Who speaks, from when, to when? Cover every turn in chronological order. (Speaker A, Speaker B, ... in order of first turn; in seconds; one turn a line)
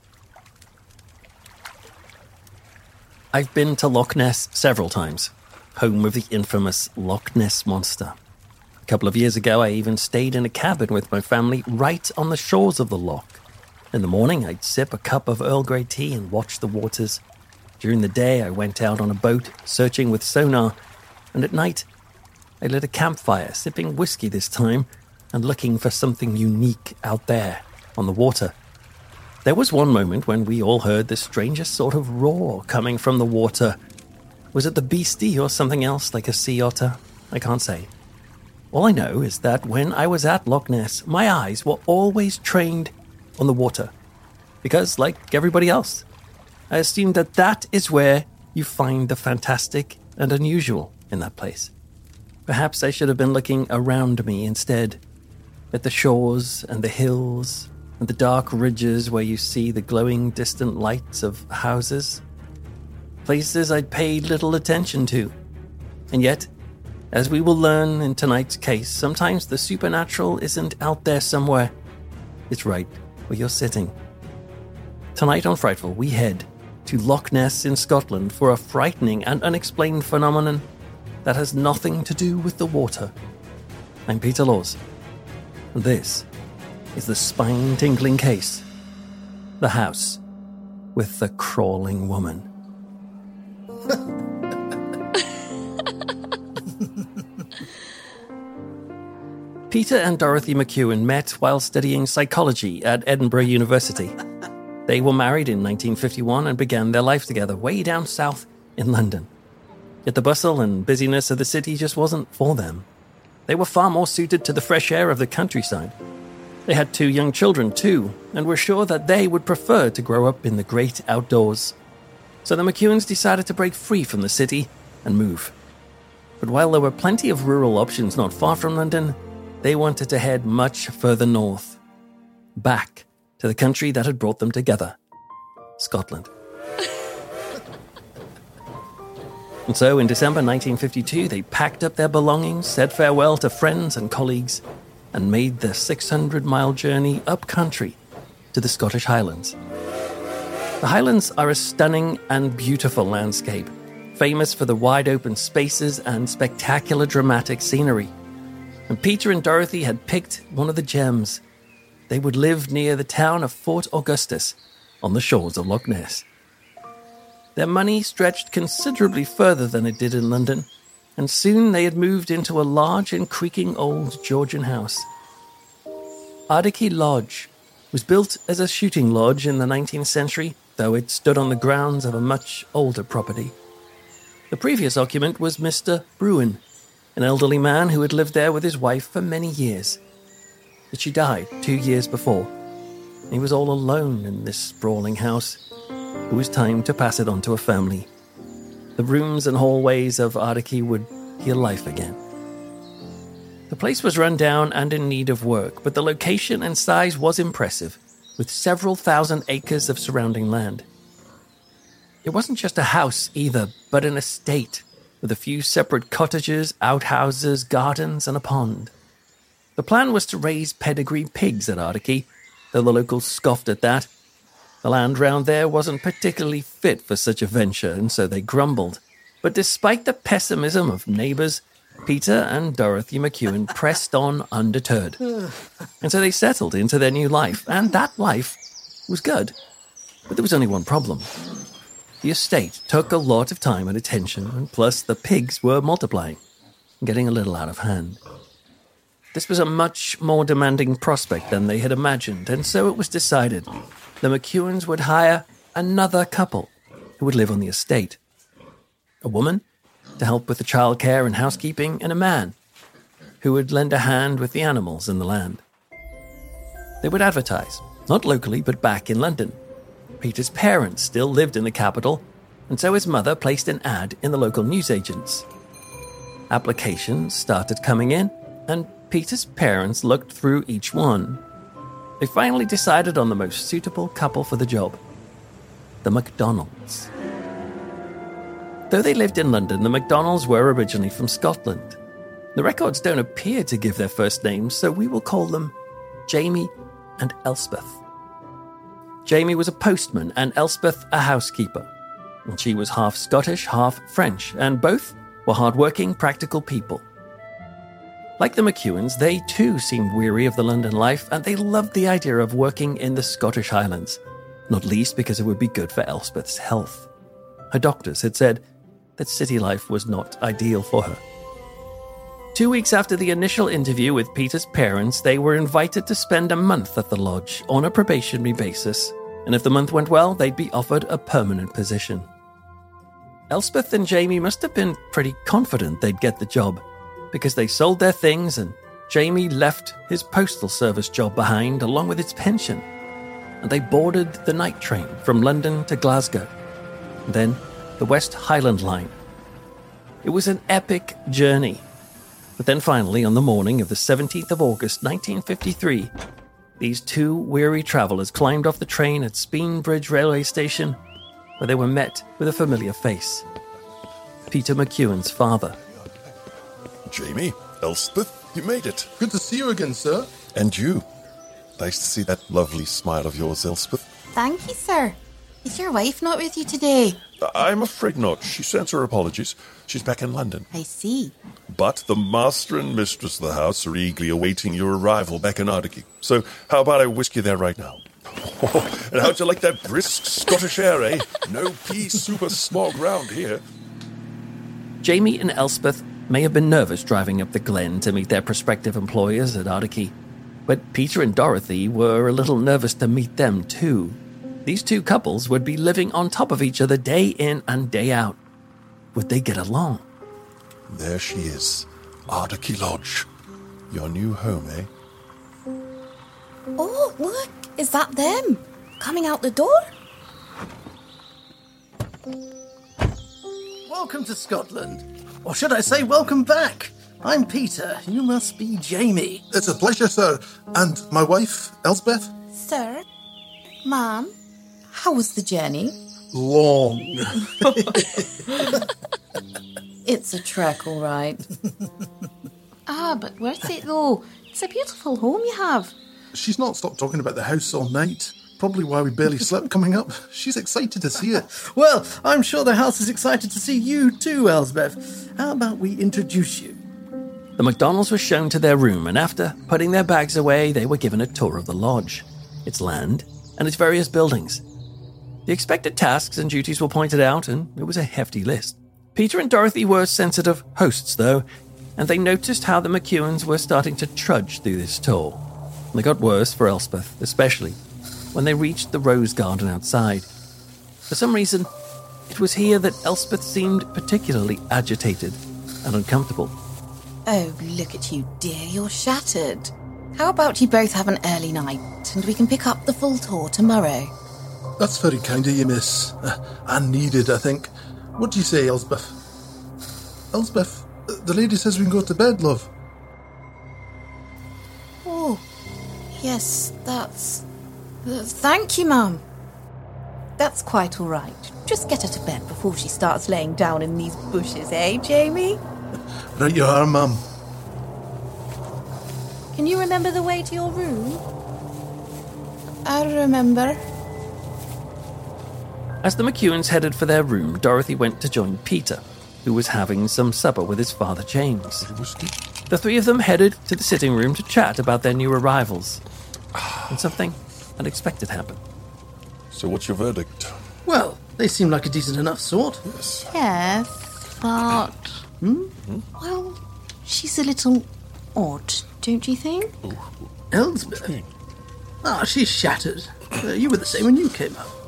Speaker A: 3.3-8.2
Speaker A: 8.9-13.4
Speaker A: 13.9-17.2
Speaker A: 17.8-20.8
Speaker A: 21.3-21.9
Speaker A: 22.6-28.5
Speaker A: 29.4-33.8
Speaker A: 34.5-37.9
Speaker A: 38.7-43.9
Speaker A: 44.6-46.0
Speaker A: 46.7-51.7
Speaker A: 52.5-55.0
Speaker A: 55.7-62.2
Speaker A: 63.2-65.3
Speaker A: 66.1-66.5
Speaker A: 67.1-71.7
Speaker A: 72.5-73.9
Speaker A: 75.1-80.6
Speaker A: 81.2-83.1
Speaker A: 84.1-84.8
Speaker A: 85.7-86.2
Speaker A: 86.9-88.6
Speaker A: 89.6-90.2
Speaker A: 90.9-92.5
Speaker A: 99.7-104.1
Speaker A: 104.9-109.3
Speaker A: 110.0-112.9
Speaker A: 113.5-115.9
Speaker A: 116.7-121.8
Speaker A: 122.4-125.5
Speaker A: 126.4-131.8
Speaker A: 132.6-135.0
Speaker A: 135.8-136.3
Speaker A: 139.7-148.0
Speaker A: 148.5-149.6
Speaker A: 150.8-158.1
Speaker A: 158.9-161.4
Speaker A: 162.1-166.2
Speaker A: 167.6-175.1
Speaker A: 176.5-183.6
Speaker A: 184.5-186.6
Speaker A: 187.1-190.0
Speaker A: 190.9-192.5
Speaker A: 193.3-195.6
Speaker A: 196.3-198.1
Speaker A: 199.0-202.2
Speaker A: 203.7-210.8
Speaker A: 212.2-218.9
Speaker A: 219.8-224.1
Speaker A: 224.8-235.2
Speaker A: 236.0-239.5
Speaker A: 240.3-241.3
Speaker A: 242.2-246.4
Speaker A: 247.0-248.2
Speaker A: 249.3-253.7
Speaker A: 254.2-258.2
Speaker A: 259.2-259.6
Speaker A: 260.2-262.5
Speaker A: 263.4-265.6
Speaker A: 267.0-269.6
Speaker A: 270.2-275.4
Speaker A: 276.5-281.4
Speaker A: 282.2-285.0
Speaker A: 286.0-287.1
Speaker A: 288.9-292.0
Speaker A: 292.5-295.7
Speaker A: 296.3-298.0
Speaker A: 299.2-301.9
Speaker A: 302.4-307.0
Speaker A: 308.4-317.1
Speaker A: 317.7-318.6
Speaker A: 319.2-321.2
Speaker A: 322.5-332.3
Speaker A: 333.5-342.8
Speaker A: 343.6-346.5
Speaker A: 347.2-349.1
Speaker A: 350.2-351.8
Speaker A: 352.6-356.1
Speaker A: 356.8-361.0
Speaker A: 361.6-363.4
Speaker A: 364.5-365.8
Speaker B: 367.1-369.1
Speaker C: 369.2-370.3
Speaker B: 370.5-371.0
Speaker B: 371.8-374.0
Speaker D: 374.3-377.2
Speaker B: 377.4-380.7
Speaker D: 380.7-381.3
Speaker B: 381.7-393.6
Speaker A: 395.0-400.1
Speaker A: 400.7-408.4
Speaker A: 409.1-410.0
Speaker B: 410.9-413.3
Speaker B: 413.9-414.9
Speaker D: 416.8-419.9
Speaker E: 423.9-429.4
Speaker C: 429.5-432.3
Speaker D: 432.5-433.0
Speaker D: 433.8-434.3
Speaker D: 434.9-435.9
Speaker C: 436.3-438.2
Speaker D: 440.0-441.4
Speaker D: 442.9-445.9
Speaker C: 446.3-451.5
Speaker E: 451.5-456.8
Speaker A: 457.6-464.6
Speaker A: 465.5-471.4
Speaker A: 472.0-477.8
Speaker A: 478.3-480.3
Speaker A: 481.1-481.7
Speaker A: 482.3-486.5
Speaker D: 487.2-494.1
Speaker C: 494.8-499.1
Speaker C: 500.3-502.7
Speaker D: 505.0-505.4
Speaker D: 506.1-507.4
Speaker D: 508.0-509.2
Speaker D: 510.4-515.6
Speaker C: 516.3-517.2
Speaker D: 519.5-521.2
Speaker D: 522.8-523.8
Speaker A: 526.0-531.9
Speaker B: 531.9-532.3
Speaker A: 532.7-536.0
Speaker A: 536.9-538.6
Speaker B: 539.5-540.6
Speaker E: 540.9-542.8
Speaker B: 542.9-543.3
Speaker D: 543.3-545.2
Speaker E: 545.4-545.7
Speaker D: 546.1-549.7
Speaker B: 549.8-550.1
Speaker E: 550.5-551.1
Speaker B: 550.9-551.3
Speaker E: 552.0-554.7